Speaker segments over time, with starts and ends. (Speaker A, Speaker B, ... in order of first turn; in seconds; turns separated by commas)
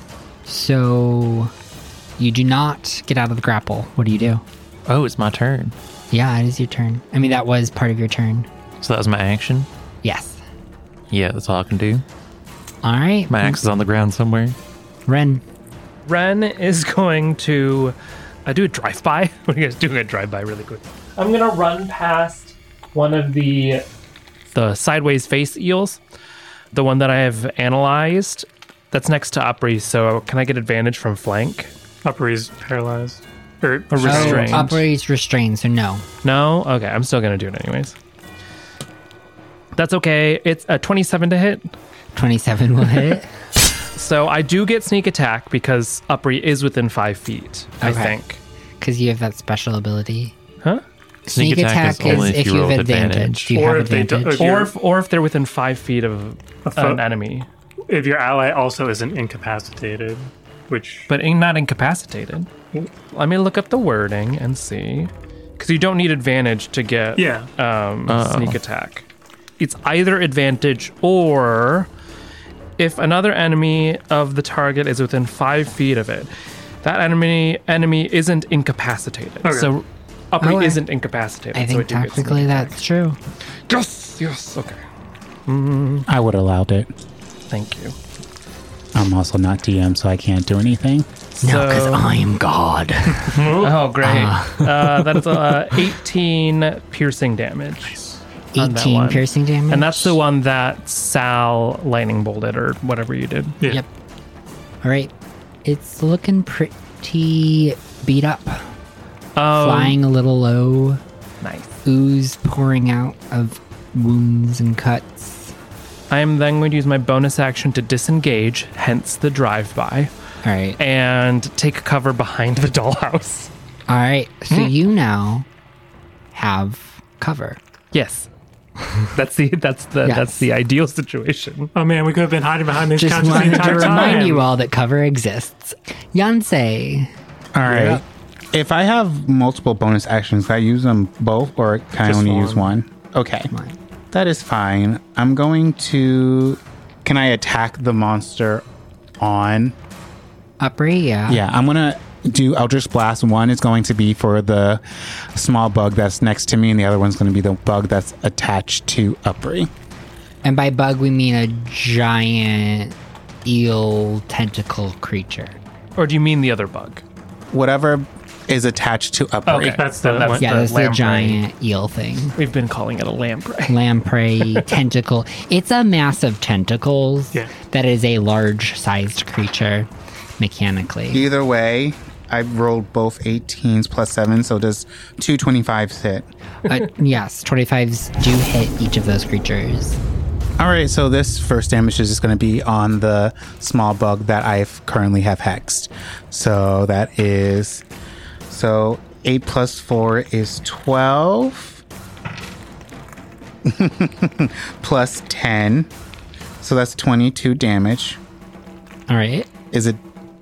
Speaker A: 0.5-1.5, Speaker A: 2.2-4.4, Speaker B: 4.9-5.7, Speaker A: 6.1-8.5, Speaker B: 8.8-9.7, Speaker A: 10.0-10.4, Speaker B: 11.1-12.0, Speaker A: 12.8-13.6, Speaker B: 13.3-14.6, Speaker A: 15.1-15.4, Speaker C: 16.1-17.9, Speaker C: 18.4-23.8, Speaker C: 24.5-26.0, Speaker C: 26.7-31.7, Speaker D: 32.0-34.8, Speaker C: 33.9-34.8, Speaker A: 34.0-36.0, Speaker C: 36.2-37.9, Speaker C: 39.7-41.6, Speaker A: 42.1-43.3, Speaker C: 44.0-48.4, Speaker A: 47.8-48.2, Speaker A: 48.8-50.3, Speaker B: 51.3-53.5, Speaker A: 51.3-54.4, Speaker D: 53.5-54.7, Speaker C: 54.3-57.5, Speaker D: 56.6-57.0, Speaker D: 57.9-61.1, Speaker C: 61.1-62.5, Speaker C: 63.1-69.0, Speaker D: 67.2-67.5, Speaker B: 68.1-68.6, Speaker C: 69.6-71.9, Speaker C: 72.8-76.3, Speaker C: 76.8-82.8, Speaker D: 79.4-79.7, Speaker A: 80.4-80.8, Speaker A: 81.5-83.2, Speaker C: 83.7-84.8, Speaker C: 85.5-86.1, Speaker E: 86.1-86.9, Speaker C: 87.5-88.0, Speaker E: 88.9-91.1, Speaker C: 91.4-92.1, Speaker A: 91.4-95.2, Speaker C: 93.3-98.0, Speaker A: 98.5-100.2, Speaker C: 98.5-103.6, Speaker A: 103.6-103.9, Speaker A: 104.8-105.1, Speaker A: 105.6-108.7, Speaker C: 109.3-110.0, Speaker A: 109.5-111.0, Speaker C: 111.4-111.7, Speaker A: 111.8-115.5, Speaker C: 116.1-120.1, Speaker A: 120.4-120.8, Speaker C: 120.8-123.5, Speaker A: 123.9-125.5, Speaker A: 126.3-127.6, Speaker C: 127.9-128.3, Speaker C: 129.1-131.7, Speaker A: 130.0-130.4, Speaker D: 131.7-134.5, Speaker A: 133.0-137.1, Speaker C: 133.3-134.2, Speaker E: 137.5-143.5, Speaker D: 142.0-142.7, Speaker A: 143.5-143.8, Speaker E: 144.1-148.6, Speaker E: 149.2-149.8, Speaker A: 150.6-151.4, Speaker E: 151.3-159.7, Speaker A: 160.4-165.6, Speaker C: 165.9-167.0, Speaker E: 167.5-169.9, Speaker C: 169.4-171.4, Speaker D: 169.6-170.5, Speaker A: 170.4-172.4, Speaker C: 172.4-173.8, Speaker A: 173.7-181.3, Speaker E: 181.1-186.3, Speaker A: 186.6-190.0, Speaker E: 190.6-197.8, Speaker E: 198.5-201.8, Speaker E: 203.6-205.9, Speaker E: 206.6-208.2, Speaker A: 209.1-209.5, Speaker E: 209.7-210.0